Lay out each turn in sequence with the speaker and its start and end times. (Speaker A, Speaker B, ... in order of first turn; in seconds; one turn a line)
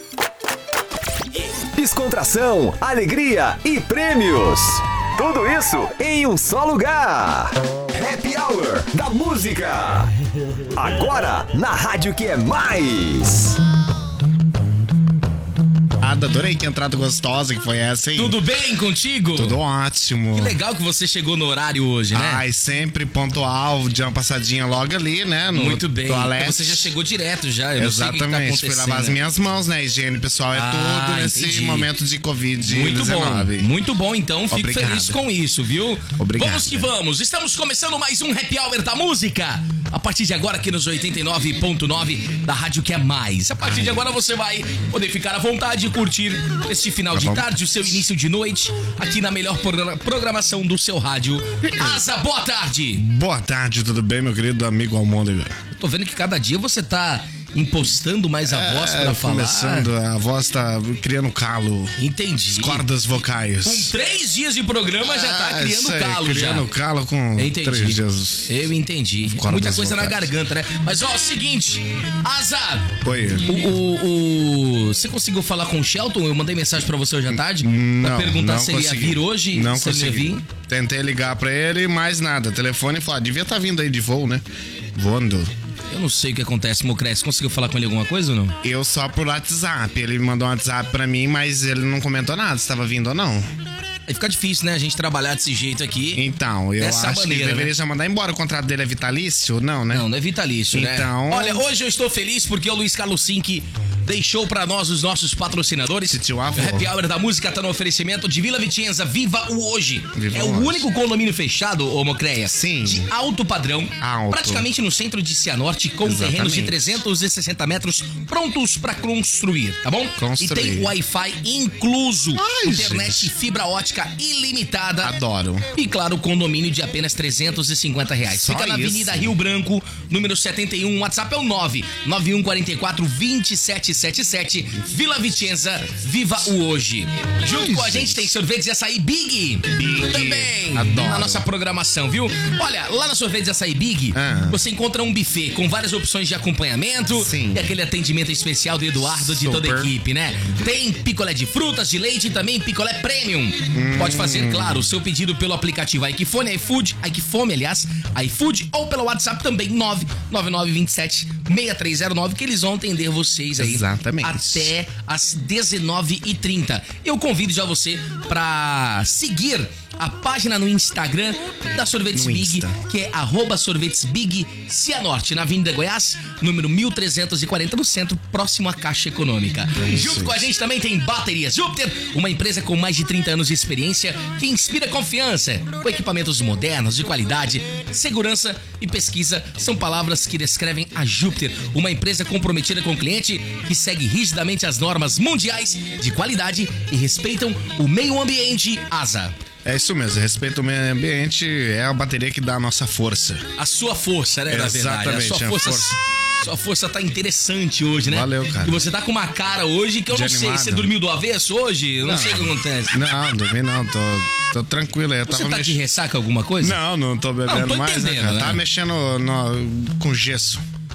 Speaker A: 1.7-10.1
Speaker A: 10.7-13.6
Speaker B: 16.0-18.4
Speaker C: 18.1-19.6
Speaker B: 19.4-20.6
Speaker C: 20.3-22.4
Speaker B: 22.1-26.9
Speaker C: 25.5-29.2
Speaker B: 27.8-33.7
Speaker C: 30.5-31.9
Speaker C: 32.6-53.0
Speaker B: 34.5-35.2
Speaker B: 36.2-36.9
Speaker B: 43.6-44.1
Speaker B: 47.1-48.0
Speaker B: 53.0-55.6
Speaker C: 55.8-59.9
Speaker B: 58.5-62.0
Speaker C: 62.0-62.9
Speaker B: 62.5-63.9
Speaker C: 63.6-66.7
Speaker B: 65.0-68.7
Speaker C: 67.4-80.4
Speaker B: 69.3-70.3
Speaker B: 73.0-73.5
Speaker B: 77.3-85.5
Speaker C: 85.9-88.6
Speaker B: 88.6-93.5
Speaker C: 94.1-96.2
Speaker B: 96.1-100.1
Speaker C: 96.8-97.7
Speaker C: 99.9-125.1
Speaker B: 100.7-101.7
Speaker B: 106.0-106.9
Speaker B: 110.1-110.9
Speaker B: 112.4-113.1
Speaker B: 114.0-114.7
Speaker B: 116.0-117.0
Speaker B: 120.2-120.9
Speaker B: 122.4-123.3
Speaker B: 125.0-125.7
Speaker C: 125.8-199.3
Speaker B: 128.3-129.3
Speaker B: 137.5-138.3
Speaker B: 139.7-141.5
Speaker B: 144.1-144.6
Speaker B: 147.1-147.7
Speaker B: 148.9-149.9
Speaker B: 153.7-154.9
Speaker B: 163.6-164.7
Speaker B: 172.1-172.8
Speaker B: 179.8-180.5
Speaker B: 199.7-203.5
Speaker C: 203.6-213.0
Speaker B: 204.5-206.0
Speaker B: 208.0-208.8
Speaker B: 210.1-210.9
Speaker B: 212.0-215.8
Speaker C: 215.3-216.8
Speaker B: 216.6-220.6
Speaker C: 217.5-218.6